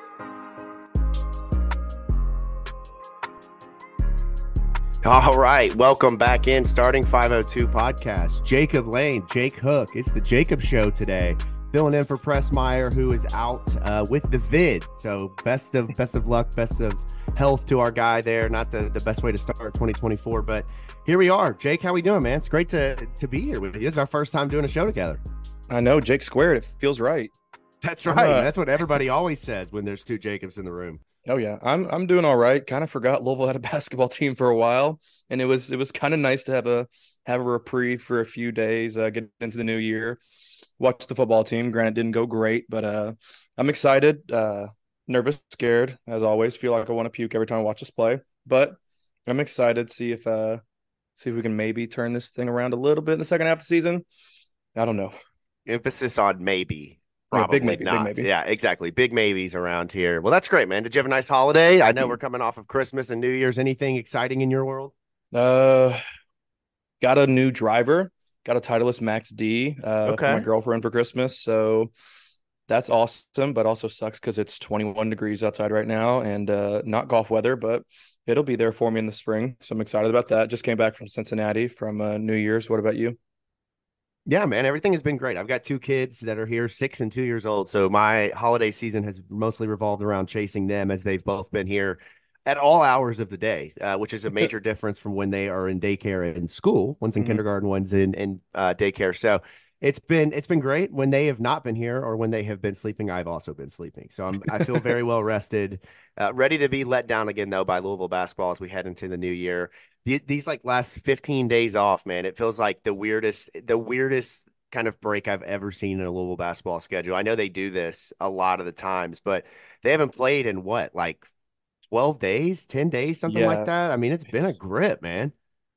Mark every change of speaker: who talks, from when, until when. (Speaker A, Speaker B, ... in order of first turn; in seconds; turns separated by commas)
Speaker A: 5.0-25.2, Speaker B: 25.7-27.3, Speaker A: 27.8-31.0, Speaker B: 28.1-28.5, Speaker B: 31.3-40.2, Speaker B: 40.8-50.6, Speaker B: 51.2-54.0, Speaker B: 54.8-55.1, Speaker A: 55.7-64.9, Speaker B: 57.3-58.3, Speaker B: 65.3-66.0, Speaker B: 67.0-71.9, Speaker A: 70.0-70.5, Speaker B: 72.7-83.2, Speaker A: 84.3-121.3, Speaker A: 121.9-125.3, Speaker B: 123.3-123.7